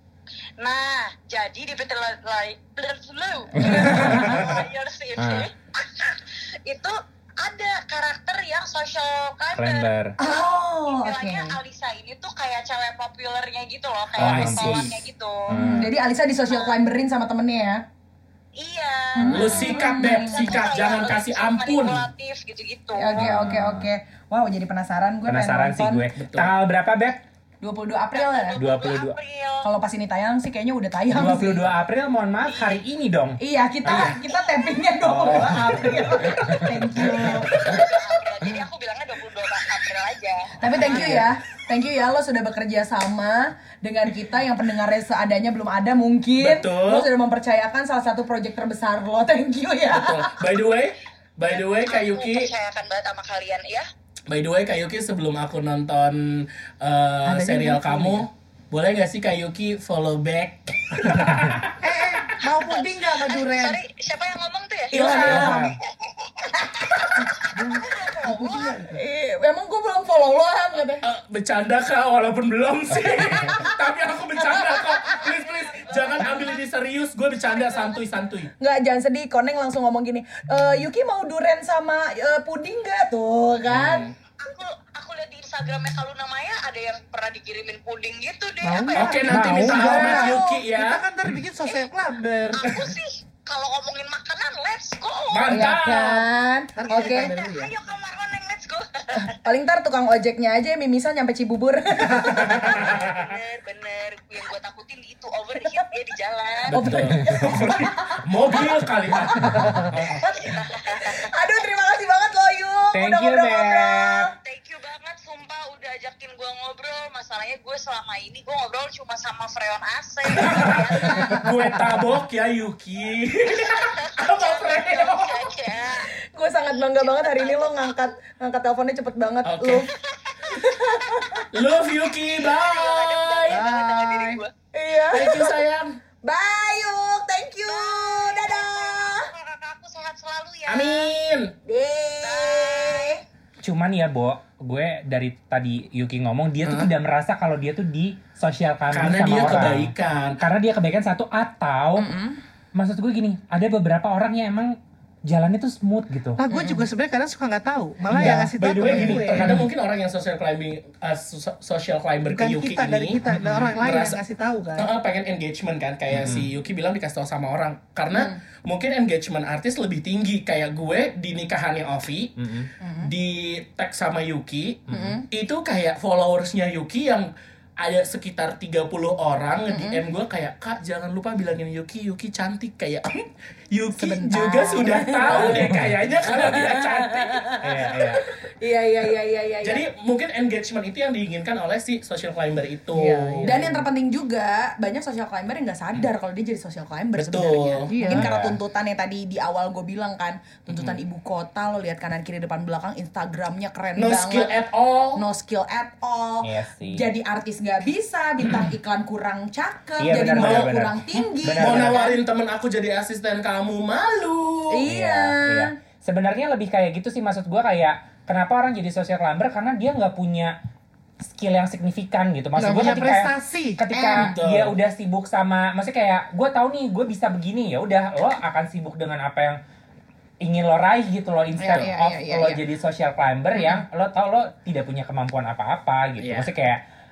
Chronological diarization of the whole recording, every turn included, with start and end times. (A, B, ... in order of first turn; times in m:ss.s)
0:00.6-0:15.8 A
0:03.5-0:04.4 B
0:03.5-0:04.6 C
0:05.2-0:05.5 C
0:09.5-0:10.2 C
0:10.2-0:11.6 B
0:14.2-0:15.9 C
0:14.2-0:15.0 D
0:15.6-0:17.8 B
0:16.5-0:16.8 A
0:18.6-0:23.2 A
0:19.2-0:20.6 B
0:19.3-0:19.8 C
0:19.3-0:22.1 D
0:22.9-0:26.0 B
0:23.1-0:23.9 C
0:25.3-0:27.2 C
0:26.2-0:26.5 D
0:27.6-0:28.6 B
0:28.1-0:29.6 A
0:28.6-0:29.2 C
0:29.6-0:31.7 B
0:31.1-0:34.2 C
0:32.4-0:32.8 A
0:33.4-0:38.0 B
0:35.0-0:37.8 C
0:37.6-0:41.2 A
0:40.6-0:50.4 B
0:40.7-0:41.3 D
0:40.8-0:41.2 C
0:46.4-0:47.1 D
0:49.9-0:52.5 D
0:51.5-0:53.9 A
0:54.3-1:01.7 D
0:57.3-0:58.2 B
1:01.8-1:03.8 E
1:02.6-1:08.8 A
1:04.9-1:05.6 D
1:04.9-1:05.7 B
1:05.0-1:05.8 C
1:06.6-1:07.3 B
1:07.5-1:09.0 E
1:08.9-1:11.0 B
1:11.0-1:18.5 D
1:13.4-1:15.2 B
1:14.9-1:16.6 A
1:17.4-1:18.0 A
1:18.6-1:24.1 B
1:23.7-1:24.1 D
1:24.4-1:29.3 A
1:28.6-1:32.6 E
1:28.9-1:31.0 D
1:29.3-1:30.2 C
1:29.6-1:30.6 B
1:32.5-1:35.7 A
1:35.3-1:36.2 D
1:35.5-1:37.3 B
1:36.8-1:37.7 E
1:36.9-1:39.4 A
1:39.2-1:43.0 B
1:42.1-1:46.8 A
1:42.2-1:43.3 D
1:46.7-1:50.2 D
1:46.7-1:54.3 B
1:46.9-1:47.7 C
1:49.9-1:51.3 A
1:52.9-1:54.3 C
1:54.3-2:01.5 A
2:00.3-2:05.5 D
2:01.0-2:01.4 B
2:03.5-2:06.1 A
2:06.0-2:09.9 B
2:06.9-2:08.0 A
2:09.4-2:09.9 D
2:09.9-2:11.4 A
2:10.5-2:11.5 B
2:11.5-2:13.7 D
2:12.2-2:14.5 A
2:13.5-2:14.4 E
2:14.7-2:15.6 B
2:15.1-2:16.0 D
2:16.2-2:19.3 B
2:17.6-2:21.1 A
2:20.7-2:21.5 D
2:21.6-2:23.2 B
2:22.2-2:23.2 A
2:23.6-2:32.1 C
2:26.6-2:26.9 D
2:28.9-2:30.4 D
2:32.0-2:32.4 B
2:32.7-2:36.4 C
2:36.4-2:39.6 E
2:36.5-2:36.8 B
2:38.1-2:38.4 B
2:38.1-2:39.7 C
2:38.2-2:44.2 D
2:42.3-2:44.9 E
2:44.8-2:52.4 D
2:46.1-2:46.5 C
2:48.1-2:48.4 B
2:52.4-2:52.7 C
2:52.8-2:53.1 B
2:53.0-2:57.3 D
2:54.9-2:55.2 C
2:54.9-2:55.2 B
2:57.8-3:07.4 D
2:59.7-3:00.0 B
3:03.9-3:05.7 B
3:05.3-3:06.0 C
3:06.3-3:09.8 B
3:07.6-3:08.3 C
3:09.6-3:13.6 D
3:12.9-3:13.8 E
3:13.4-3:24.5 B
3:17.2-3:18.0 D
3:17.9-3:18.3 E
3:18.0-3:18.6 C
3:24.0-3:25.2 D
3:25.2-3:32.2 B
3:26.4-3:27.1 C
3:30.0-3:32.1 C
3:30.3-3:30.7 D
3:31.6-3:34.8 D
3:34.7-3:35.7 B
3:34.9-3:40.5 C
3:41.2-3:49.6 C
3:42.6-3:43.8 E
3:43.9-3:44.3 B
3:44.1-3:44.7 D
3:50.4-3:56.8 C
3:51.6-3:52.6 B
3:53.5-3:53.8 B
3:56.2-3:56.5 D